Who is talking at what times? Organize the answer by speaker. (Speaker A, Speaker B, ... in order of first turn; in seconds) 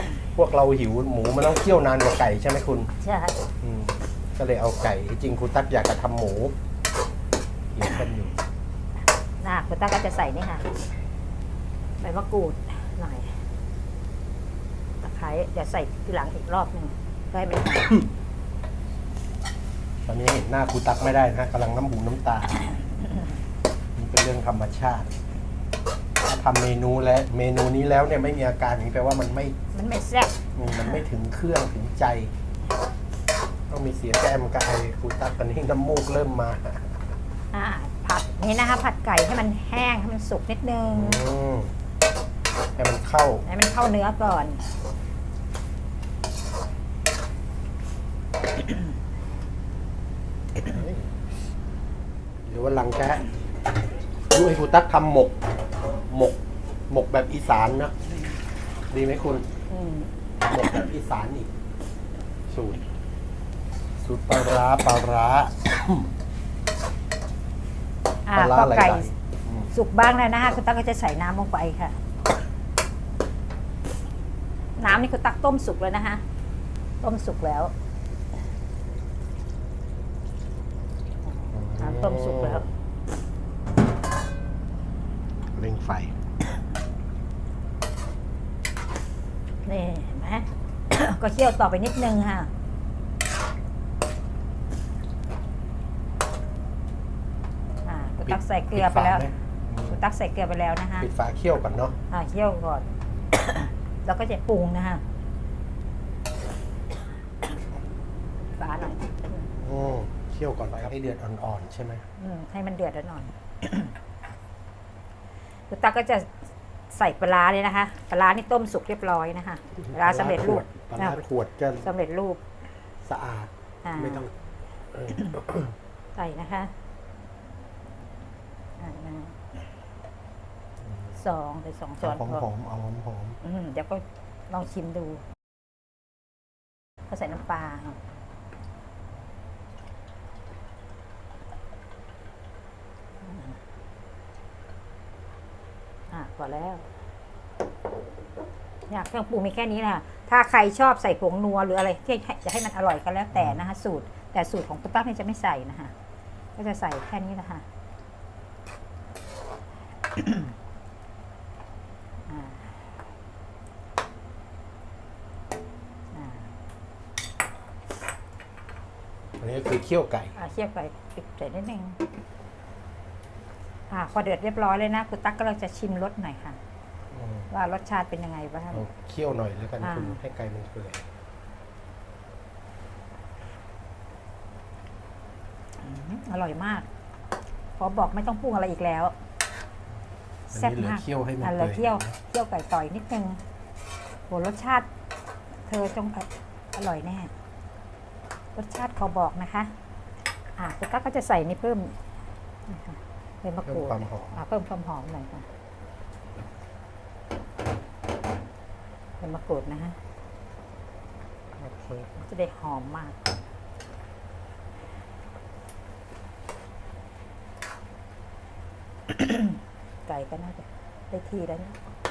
Speaker A: 0.3-2.9, 3.6-6.5, 7.7-8.4, 20.1-22.6, 23.9-25.1, 26.2-29.6, 30.6-32.3, 33.7-37.0, 40.9-41.7, 42.8-43.5, 50.6-51.1, 52.5-53.3, 54.3-55.4, 56.1-58.0, 58.9-59.5, 60.4-61.5, 62.5-62.8, 64.0-66.1, 68.3-69.7, 81.5-82.7, 85.6-86.1, 98.2-100.0, 101.0-102.0, 109.5-112.0, 119.8-121.9, 123.0-124.3, 124.9-125.7, 130.8-131.2, 132.0-133.4, 153.3-153.6, 169.4-170.4, 177.1-177.5, 178.7-181.1, 190.5-192.2, 203.6-204.4, 211.6-212.1
Speaker B: 3.0-3.4, 9.4-10.7, 12.0-13.4, 15.0-17.9, 29.7-31.0, 37.5-41.2, 43.5-44.6, 59.7-60.1, 68.3-69.1, 69.7-72.0, 74.8-76.2, 77.0-77.7, 81.2-82.6, 89.6-92.5, 97.8-99.3, 99.9-101.1, 102.1-105.0, 108.6-109.5, 112.2-113.9, 115.7-116.4, 116.9-121.2, 121.8-122.4, 123.8-124.2, 126.1-126.7, 128.8-129.5, 131.2-132.4, 133.4-135.2, 137.1-138.0, 143.2-143.6, 146.1-146.9, 148.9-155.9, 156.6-157.7, 160.1-160.5, 162.2-162.9, 166.1-166.5, 170.4-172.0, 173.9-176.6, 177.5-178.9, 179.8-180.2, 185.8-186.9, 187.8-189.1, 190.5-193.4, 194.3-194.9, 195.7-197.3, 198.5-199.7, 200.6-202.0, 202.7-205.5, 209.2-210.0, 212.2-213.3, 219.1-221.8